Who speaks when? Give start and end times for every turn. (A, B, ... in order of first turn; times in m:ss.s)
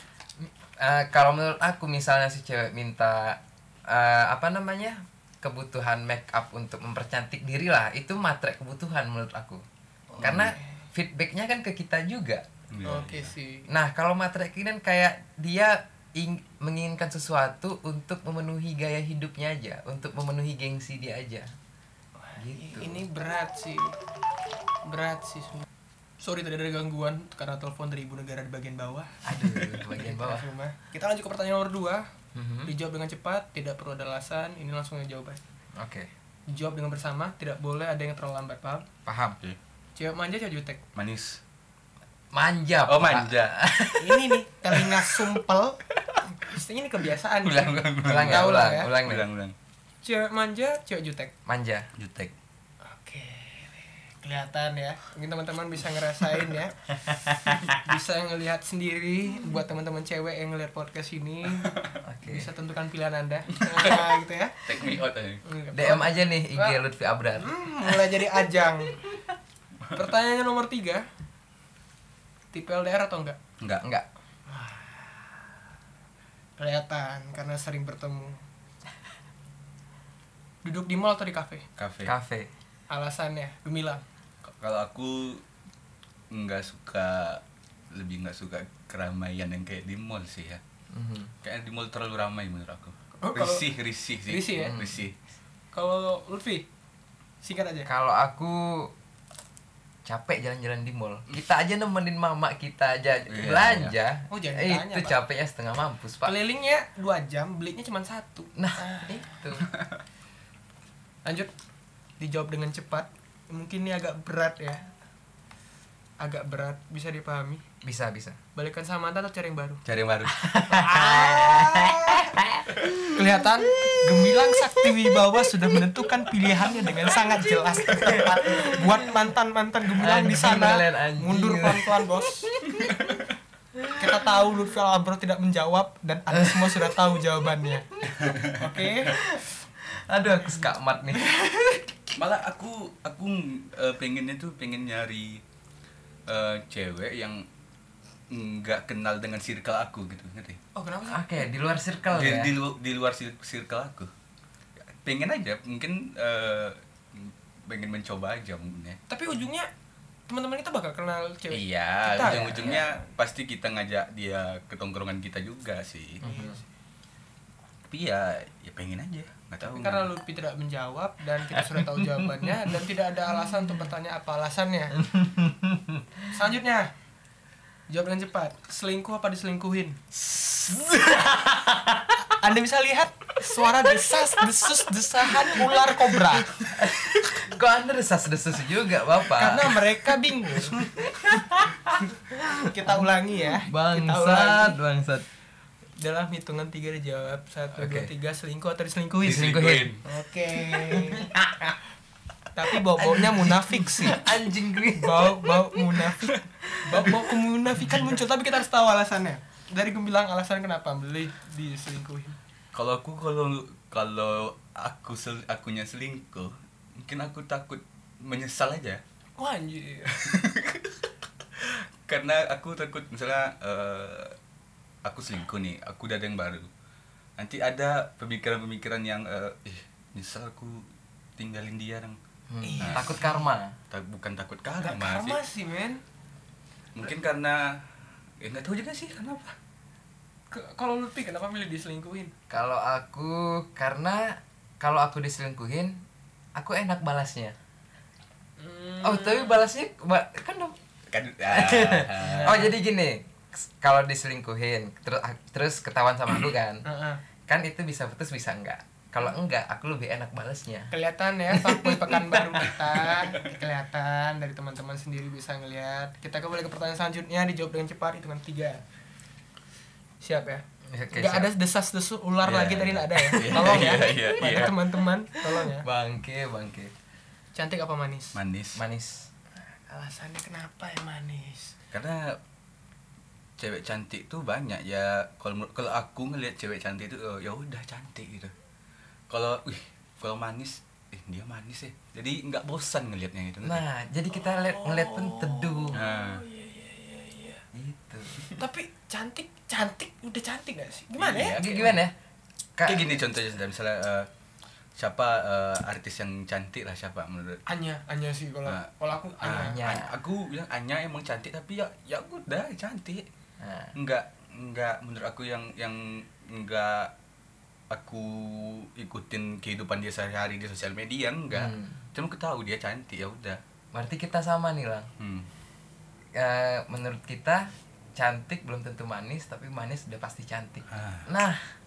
0:00.8-0:09.6 A
0:10.1-0:10.6 B
0:10.2-0:10.5 C
0:10.2-0:12.4 A
0:12.7-0:13.3 C
0:12.8-0:13.7 B
0:13.7-0:21.5 A
0:22.2-0:24.0 B
0:22.4-0:23.0 A
0:24.8-0:25.7 B
0:26.2-0:32.1 B
0:29.2-0:30.5 A
0:32.3-0:32.7 A
0:32.6-0:35.4 B
0:35.8-0:36.1 A
0:36.5-0:38.9 B
0:39.0-0:39.4 A
0:40.0-0:40.8 B
0:40.9-0:41.4 C
0:42.3-0:44.4 A
0:42.9-0:43.6 C
0:44.0-0:48.9 B
0:47.4-0:49.5 C
0:48.0-0:49.2 A
0:50.0-0:51.3 B
0:51.4-0:51.9 A
0:52.0-0:52.3 C
0:52.8-0:56.8 B
0:57.0-0:57.6 A
0:57.4-1:04.7 B
1:02.0-1:02.5 A
1:03.7-1:04.1 C
1:04.6-1:05.4 C
1:05.4-1:06.8 B
1:05.7-1:08.1 A
1:07.4-1:09.0 B
1:09.9-1:11.0 B
1:12.5-1:13.4 B
1:14.5-1:15.4 B
1:16.6-1:18.4 B
1:20.6-1:21.6 B
1:21.8-1:22.1 C
1:22.0-1:22.5 A
1:22.9-1:24.0 B
1:24.4-1:25.4 C
1:26.3-1:30.6 C
1:30.9-1:31.3 A
1:31.4-1:35.1 C
1:33.2-1:33.6 B
1:34.2-1:34.8 B
1:34.5-1:35.0 A
1:35.7-1:36.7 B
1:37.4-1:37.9 B
1:37.8-1:38.9 A
1:40.0-1:46.3 A
1:43.3-1:43.9 C
1:44.3-1:45.2 B
1:46.2-1:49.4 B
1:48.6-1:49.7 A
1:51.2-1:51.5 B
1:52.2-1:54.9 B
1:56.2-1:57.6 B
1:57.8-1:58.4 A
1:58.5-1:59.8 B
1:59.8-2:00.4 C
2:00.3-2:04.9 A
2:00.7-2:02.4 B
2:03.0-2:13.2 B
2:06.8-2:07.1 A
2:07.6-2:09.1 A
2:09.9-2:13.1 A
2:13.7-2:14.2 A
2:14.0-2:19.2 B
2:16.3-2:17.2 A
2:18.2-2:18.5 C
2:19.1-2:21.2 A
2:21.1-2:22.1 B
2:22.2-2:25.4 C
2:26.3-2:27.4 C
2:28.3-2:30.6 C
2:30.7-2:31.4 B
2:31.1-2:32.5 A
2:32.1-2:34.1 C
2:34.9-2:39.0 C
2:39.1-2:39.7 B
2:40.3-2:43.0 B
2:41.5-2:46.2 C
2:42.2-2:42.9 A
2:46.2-2:46.6 A
2:46.2-2:46.6 B
2:47.9-2:50.1 C
2:49.6-2:55.0 B
2:51.6-2:52.5 A
2:55.0-2:56.3 A
2:56.3-2:56.9 B
2:57.9-3:00.4 B
3:00.6-3:02.3 A
3:02.2-3:06.6 B
3:05.6-3:09.8 A
3:09.3-3:10.9 B
3:10.6-3:15.2 A
3:12.4-3:14.8 B
3:16.0-3:21.3 B
3:17.7-3:18.1 A
3:19.2-3:19.9 A
3:19.2-3:20.0 C
3:20.6-3:21.8 A
3:22.5-3:24.2 B
3:22.8-3:27.3 A
3:24.9-3:32.4 B
3:27.8-3:28.1 A
3:32.7-3:39.0 C
3:39.4-3:40.3 B
3:40.1-3:41.0 C
3:41.6-3:44.4 C
3:45.0-3:46.7 C
3:47.4-3:50.8 C
3:51.4-3:52.2 C
3:52.5-3:53.8 A
3:52.6-3:53.4 B
3:52.8-3:53.2 C
3:53.9-3:55.4 C
3:54.8-3:56.0 B
3:56.9-3:57.9 C
3:58.4-3:59.5 C
4:00.5-4:02.3 B
4:02.5-4:06.0 A
4:06.5-4:07.5 A
4:08.6-4:09.6 B
4:09.0-4:10.8 A
4:11.1-4:12.7 C
4:11.4-4:16.8 A
4:12.1-4:12.7 B
4:16.8-4:17.2 B
4:17.5-4:20.9 A
4:20.9-4:28.8 B
4:21.5-4:23.3 A
4:30.2-4:35.9 B
4:30.9-4:31.5 A
4:32.4-4:34.9 C
4:35.6-4:36.9 A
4:37.5-4:38.4 B
4:38.3-4:38.8 C
4:38.7-4:39.3 A
4:39.6-4:41.7 B
4:41.9-4:42.4 C
4:43.6-4:48.5 C
4:49.3-4:53.8 C
4:53.6-4:56.0 A
4:54.3-4:57.6 B
4:55.9-4:56.4 C
4:57.7-4:58.6 A
4:58.6-5:01.6 B
5:01.2-5:02.0 C
5:01.6-5:02.1 A
5:02.8-5:03.2 A
5:02.8-5:04.3 C
5:05.0-5:07.6 C
5:07.6-5:09.8 B
5:08.6-5:13.2 C
5:09.5-5:10.2 A
5:13.6-5:13.9 A
5:13.9-5:17.1 C
5:17.9-5:23.6 C
5:21.5-5:22.0 A
5:23.9-5:25.1 A
5:25.2-5:25.5 C
5:26.3-5:31.7 A
5:30.9-5:31.3 C